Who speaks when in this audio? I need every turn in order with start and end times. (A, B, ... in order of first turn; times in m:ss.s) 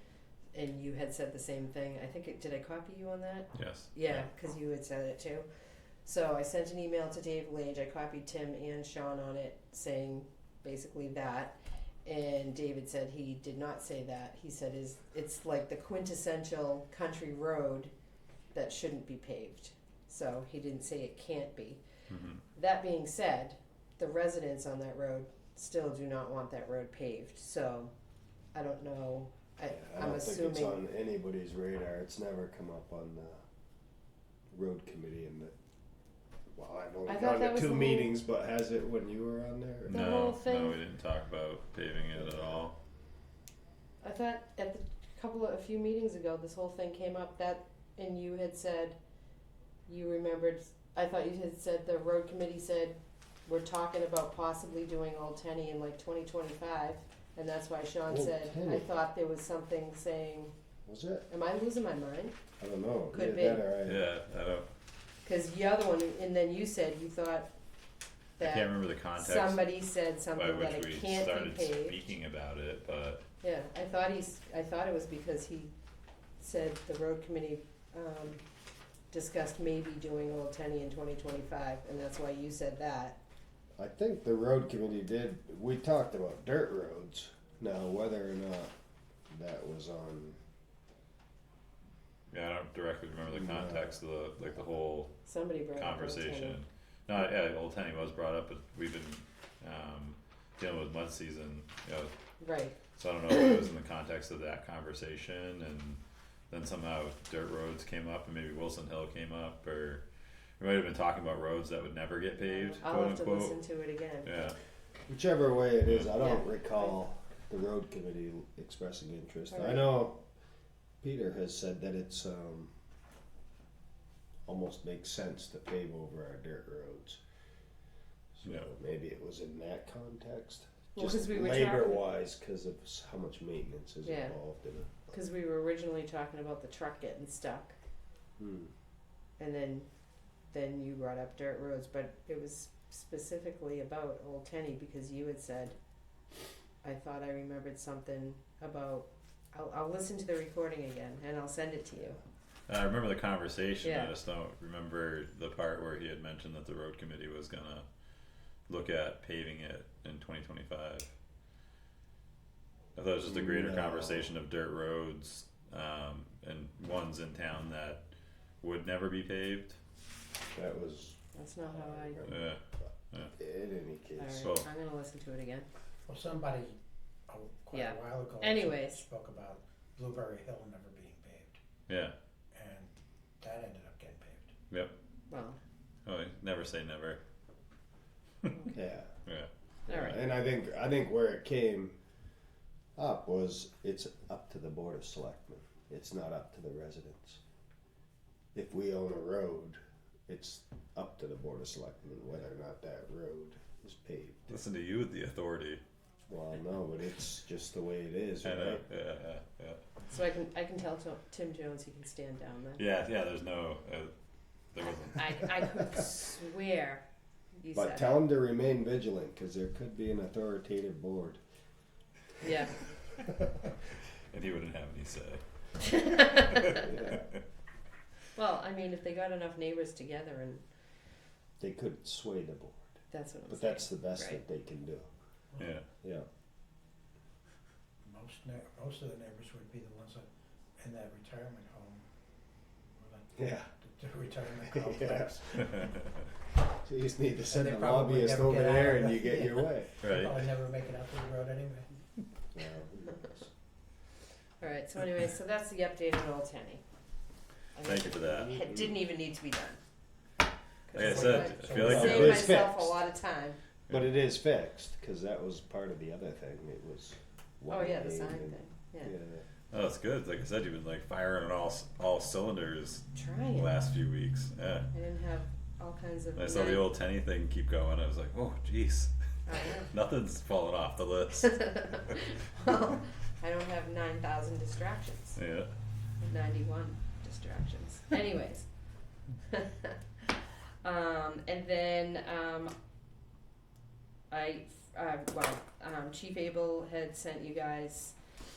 0:00.5-0:05.5 A
0:03.5-0:04.3 B
0:06.0-0:17.9 A
0:18.5-0:21.8 A
0:22.1-0:22.4 B
0:22.6-0:27.9 A
0:28.5-0:30.8 A
0:29.7-0:33.4 C
0:34.5-0:35.5 C
0:36.6-0:40.0 C
0:37.1-0:38.1 A
0:39.9-0:42.7 B
0:39.9-0:40.8 A
0:44.0-0:49.0 A
0:49.9-1:00.5 A
0:58.1-0:58.9 C
1:00.9-1:01.3 C
1:01.3-1:02.4 A
1:02.6-1:04.0 C
1:03.1-1:03.7 A
1:03.8-1:04.7 B
1:05.2-1:07.5 A
1:08.4-1:09.7 B
1:08.4-1:12.0 A
1:10.4-1:13.2 B
1:13.4-1:15.7 A
1:16.4-1:18.4 A
1:19.1-1:23.2 A
1:23.8-1:28.7 C
1:29.3-1:30.4 C
1:32.3-1:35.2 B
1:33.3-1:33.9 C
1:35.3-1:36.6 A
1:35.8-1:42.1 B
1:42.4-1:42.8 A
1:43.0-1:50.0 B
1:50.6-1:53.6 B
1:52.8-1:54.3 A
1:54.2-1:54.6 B
1:55.1-2:00.2 C
1:56.2-1:56.5 A
1:59.5-1:59.9 A
2:01.0-2:02.7 C
2:04.5-2:07.2 C
2:08.3-2:15.2 C
2:11.0-2:12.0 A
2:14.0-2:14.4 A
2:15.1-2:17.8 A
2:18.4-2:18.7 C
2:19.4-2:19.9 A
2:20.5-2:25.8 A
2:26.8-2:32.2 A
2:32.7-2:37.8 B
2:33.8-2:34.1 A
2:38.7-2:41.1 B
2:43.0-2:48.0 B
2:43.3-2:44.3 C
2:48.6-2:49.8 B
2:50.5-2:52.5 C
2:51.4-2:52.2 A
2:52.2-2:52.6 B
2:53.3-2:54.5 C
2:54.2-2:55.7 A
2:54.4-2:54.7 B
2:56.1-2:56.8 D
2:57.3-3:01.6 D
2:57.7-2:59.0 A
3:01.9-3:02.1 B
3:02.5-3:04.5 D
3:05.3-3:05.6 A
3:06.1-3:07.2 B
3:08.7-3:09.1 C
3:09.3-3:10.0 B
3:09.9-3:12.0 C
3:09.9-3:10.2 A
3:13.0-3:17.4 C
3:18.5-3:24.6 C
3:24.5-3:25.8 B
3:26.3-3:28.8 C
3:28.4-3:29.8 B
3:30.1-3:32.8 A
3:32.8-3:34.1 B
3:34.7-3:35.6 B
3:35.2-3:38.2 A
3:37.7-3:41.4 C
3:42.4-3:42.7 A
3:44.3-3:45.4 B
3:45.8-3:46.9 A
3:45.9-3:47.2 B
3:46.8-3:47.2 C
3:48.4-3:50.7 A
3:51.6-3:52.8 C
3:53.1-3:54.4 A
3:53.5-3:55.1 C
3:55.5-3:55.8 D
3:55.6-3:55.8 B
3:56.0-3:56.3 C
3:58.0-4:02.0 D
4:03.0-4:06.0 D
4:03.4-4:03.7 C
4:04.5-4:06.0 C
4:06.6-4:09.9 C
4:07.5-4:11.9 D
4:10.0-4:10.4 B
4:12.5-4:13.5 C
4:14.6-4:16.8 A
4:17.8-4:19.8 A
4:17.8-4:18.6 B
4:20.9-4:23.6 A
4:20.9-4:22.6 B
4:21.0-4:22.4 D
4:21.7-4:23.0 C
4:23.9-4:29.4 C
4:27.7-4:29.1 A
4:29.7-4:34.9 B
4:33.2-4:33.7 A
4:34.9-4:36.8 A
4:36.4-4:39.1 B
4:39.5-4:39.9 A
4:39.9-4:42.2 B
4:41.6-4:45.4 A
4:45.4-4:45.7 B
4:46.2-4:48.7 A
4:49.5-4:50.0 A
4:50.8-4:52.7 A
4:54.3-4:58.2 A